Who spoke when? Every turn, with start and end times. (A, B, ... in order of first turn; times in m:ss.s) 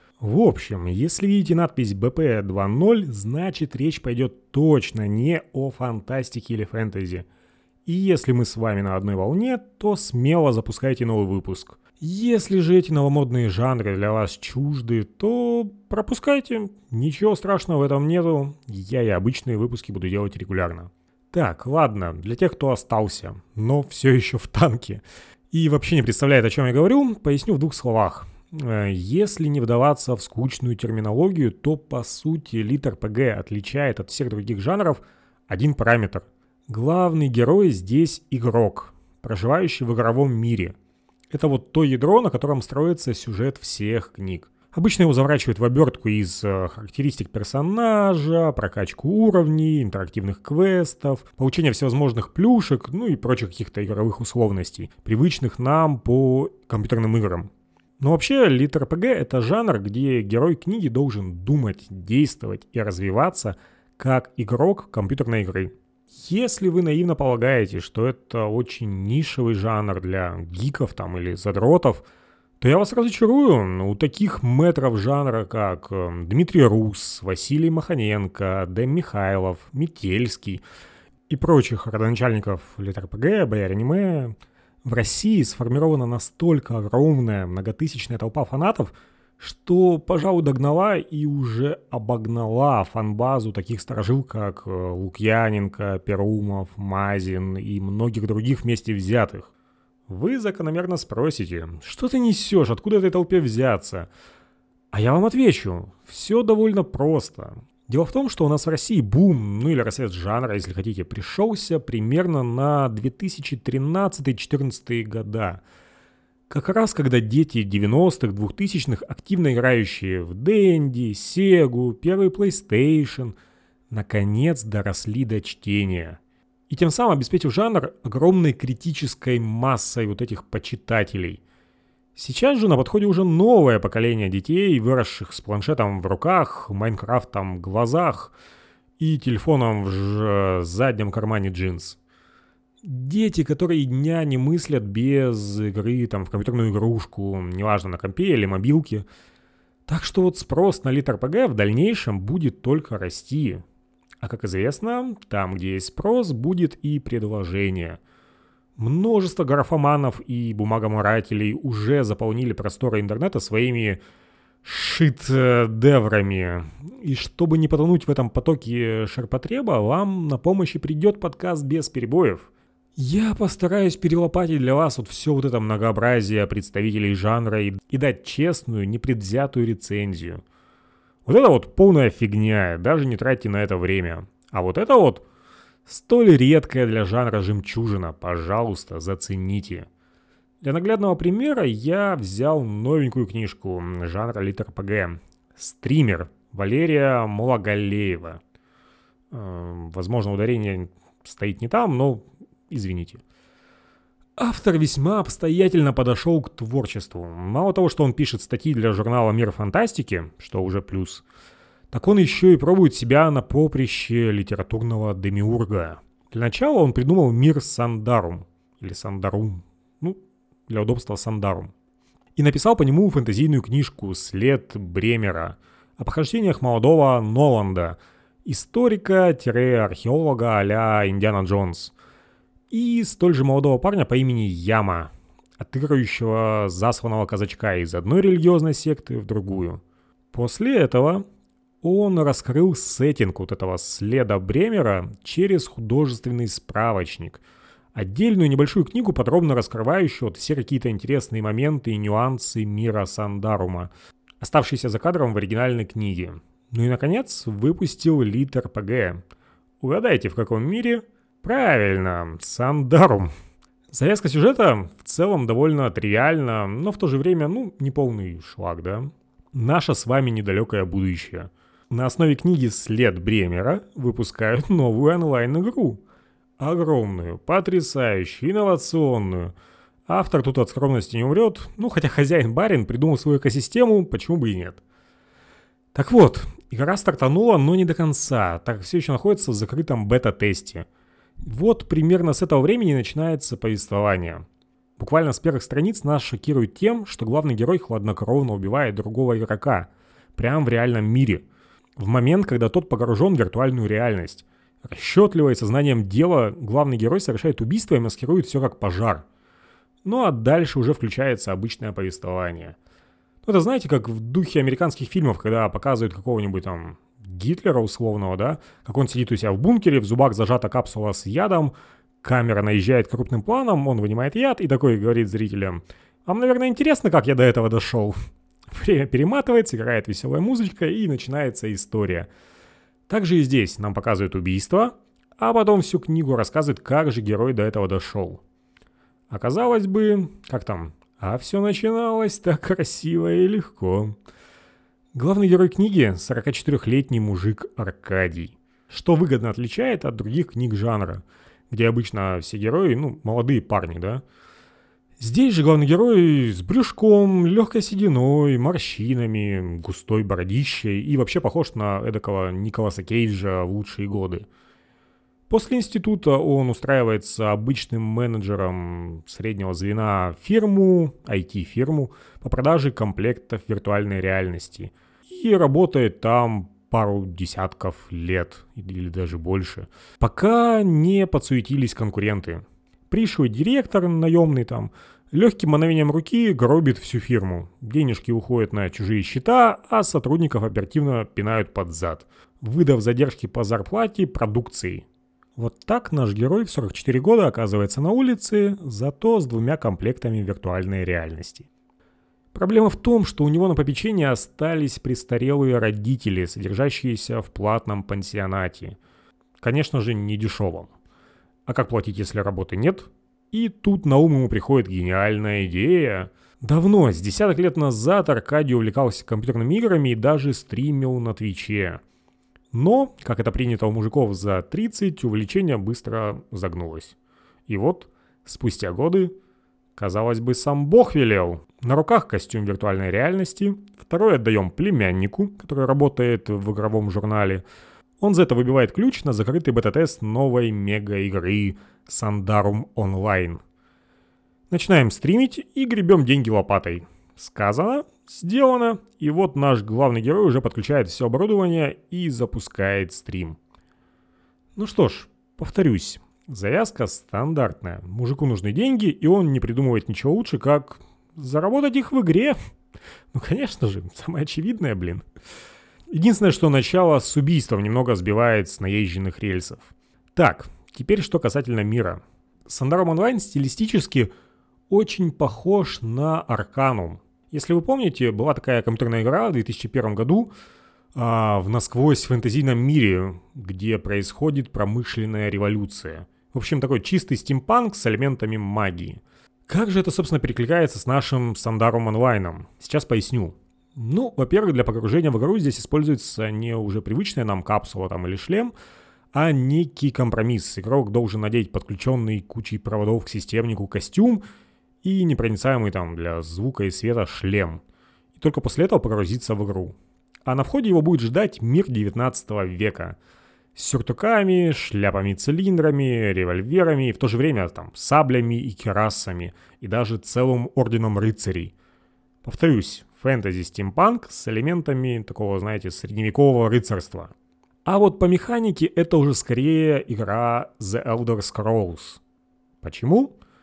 0:00.2-0:07.2 A
0:07.8-0:40.7 A
0:41.3-1:12.0 A
1:12.6-1:20.6 A
1:21.3-1:39.5 A
1:40.1-1:44.1 A
1:44.9-1:55.6 A
1:56.5-2:03.4 A
2:03.9-2:11.4 A
2:12.1-2:18.3 A
2:19.0-2:22.0 A
2:22.8-2:29.1 A
2:29.9-2:33.6 A
2:34.2-2:38.0 A
2:38.8-2:44.0 A
2:44.6-3:00.4 A
3:01.2-3:05.2 A
3:05.8-3:09.9 A
3:10.6-3:18.4 A
3:19.3-3:23.2 A
3:24.4-3:31.2 A
3:31.9-3:41.7 A
3:42.4-3:51.9 A
3:52.7-3:59.8 A
4:00.3-4:01.2 A
4:01.8-4:07.4 A
4:07.9-4:19.2 A
4:19.8-4:23.3 A
4:23.9-4:36.0 A
4:36.6-4:39.5 A
4:40.1-4:44.8 A
4:45.9-4:50.9 A
4:51.4-4:54.4 A
4:55.0-5:01.4 A
5:02.0-5:09.2 A
5:10.0-5:12.8 A
5:13.4-5:28.2 A
5:28.7-5:32.3 A
5:33.1-5:38.4 A
5:39.3-5:44.2 A
5:45.1-5:54.2 A
5:55.2-6:04.4 A
6:05.5-6:41.7 A
6:42.5-6:49.0 A
6:49.6-6:50.9 A
6:51.6-7:02.0 A
7:02.7-7:07.2 A
7:07.7-7:09.3 A
7:10.0-7:17.6 A
7:18.2-7:23.6 A
7:24.7-7:33.6 A
7:34.8-7:42.6 A
7:43.3-7:45.2 A
7:46.1-7:54.3 A
7:54.9-8:00.5 A
8:01.1-8:18.7 A
8:19.3-8:24.4 A
8:25.0-8:27.8 A
8:28.4-8:33.2 A
8:33.7-8:41.7 A
8:42.4-8:47.3 A
8:47.8-8:52.2 A
8:52.8-8:53.3 A